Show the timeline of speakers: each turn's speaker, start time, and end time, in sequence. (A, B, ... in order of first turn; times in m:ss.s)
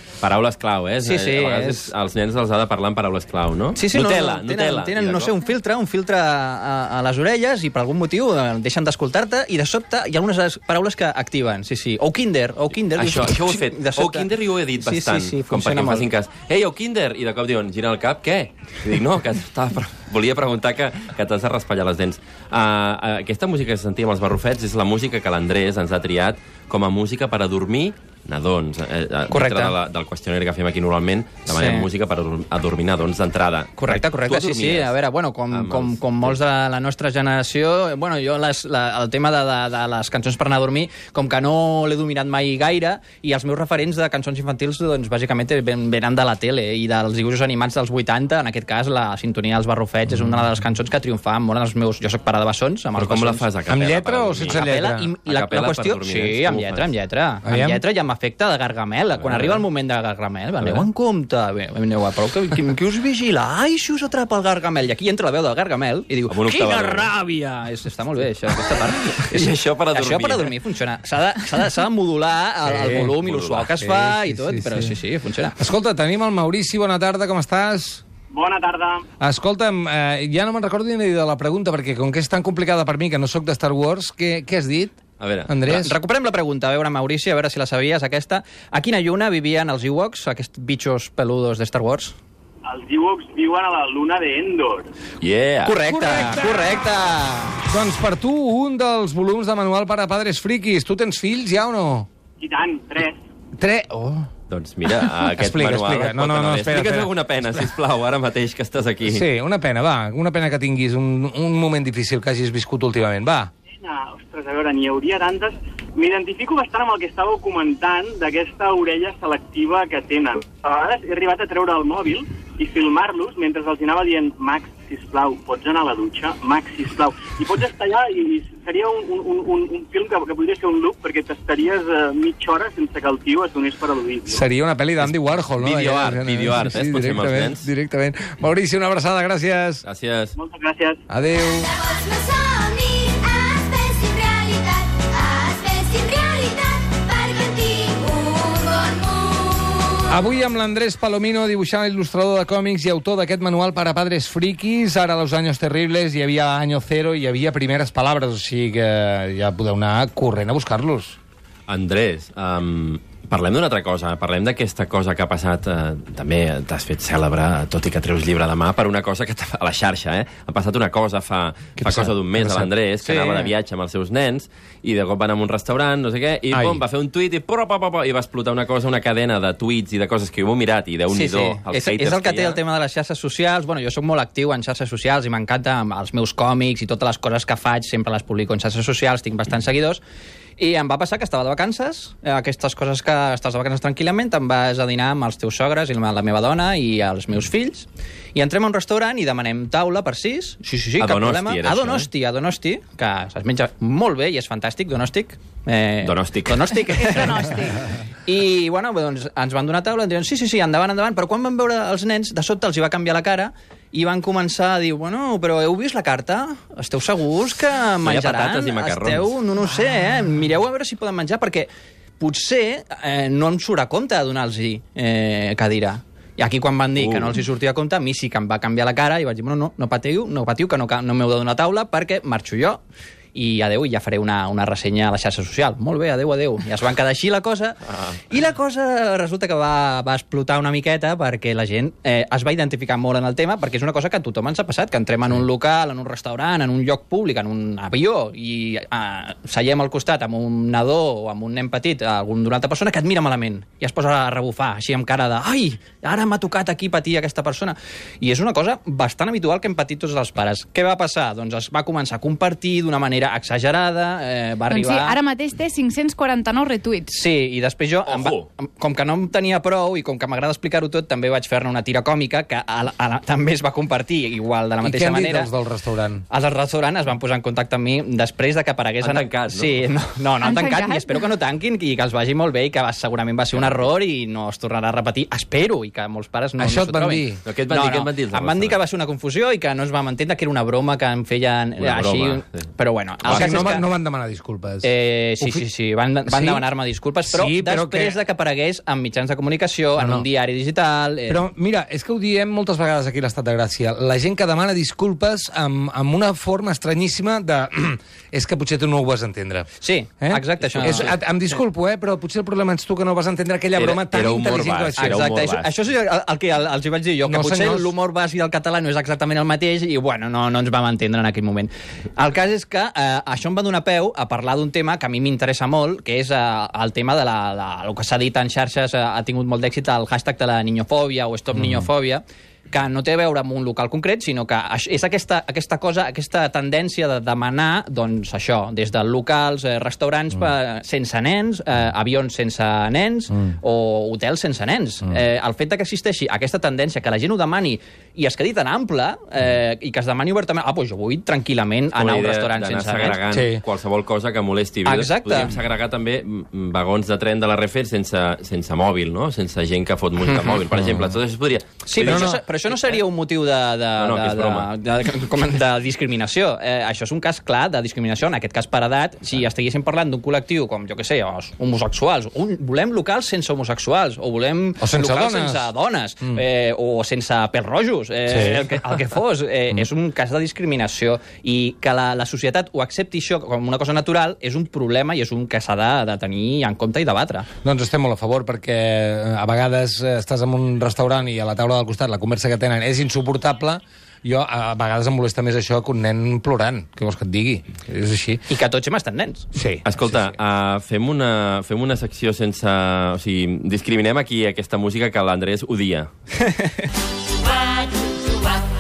0:00.2-0:05.3 A
0:01.0-0:01.9 B
0:03.8-0:16.1 B
0:13.0-0:35.0 A
0:29.3-0:29.8 B
0:31.5-0:31.9 B
0:33.8-0:53.4 B
0:35.5-0:36.4 A
0:53.0-0:54.7 A
0:53.7-0:55.1 C
0:54.5-1:15.6 B
0:55.3-0:56.9 A
0:57.4-0:57.8 C
0:59.2-0:59.7 A
1:00.6-1:00.9 A
1:06.3-1:07.1 A
1:09.2-1:10.5 A
1:12.6-1:13.2 C
1:13.2-1:13.7 A
1:13.8-1:14.9 C
1:15.6-1:18.0 C
1:18.3-1:19.0 D
1:19.2-1:25.0 C
1:25.2-1:25.5 A
1:25.5-1:26.0 C
1:25.7-1:32.2 B
1:32.6-1:34.9 D
1:35.2-1:35.8 A
1:35.6-1:37.6 B
1:35.8-1:36.7 C
1:37.7-1:42.1 C
1:42.4-1:43.2 D
1:43.6-1:44.3 C
1:44.5-1:49.3 A
1:45.2-1:47.1 C
1:49.0-1:53.5 C
1:53.8-2:14.4 D
2:14.3-2:19.8 C
2:15.0-2:17.7 A
2:19.8-2:20.4 A
2:20.4-2:21.0 D
2:21.1-2:21.7 C
2:21.8-2:30.0 E
2:30.1-2:41.2 C
2:41.7-3:02.6 A
2:51.8-2:52.7 C
2:53.0-2:53.5 B
2:56.5-2:56.8 C
3:01.1-3:10.0 B
3:10.6-3:27.5 B
3:21.0-3:22.1 A
3:26.0-3:26.8 A
3:27.0-3:27.8 F
3:28.2-3:52.8 B
3:38.0-3:39.4 A
3:47.0-3:47.4 A
3:53.3-4:25.2 B
4:24.7-4:27.2 F
4:27.1-4:35.5 B
4:28.0-4:28.5 A
4:34.8-4:36.2 C
4:36.3-4:53.9 B
4:39.0-4:39.8 A
4:40.4-4:41.2 F
4:46.6-4:47.4 C
4:47.4-4:48.8 A
4:51.8-4:52.7 A
4:53.2-4:53.8 A
4:53.3-4:54.9 C
4:54.8-5:01.4 B
4:56.3-4:56.7 C
4:57.3-4:58.2 C
5:00.0-5:00.2 C
5:01.3-5:09.7 C
5:09.8-5:11.2 B
5:10.2-5:15.2 C
5:10.7-5:11.1 A
5:13.8-5:15.7 A
5:15.0-5:53.2 B
5:17.3-5:17.9 C
5:51.9-6:03.0 A
5:53.3-5:53.6 C
5:54.8-5:55.6 B
6:00.8-6:01.0 C
6:01.9-6:27.5 B
6:02.0-6:02.4 C
6:04.0-6:04.7 A
6:14.8-6:15.7 C
6:18.3-6:18.8 C
6:27.6-6:38.4 C
6:38.5-6:39.5 B
6:39.6-6:40.4 C
6:39.8-6:46.1 A
6:46.4-6:46.9 B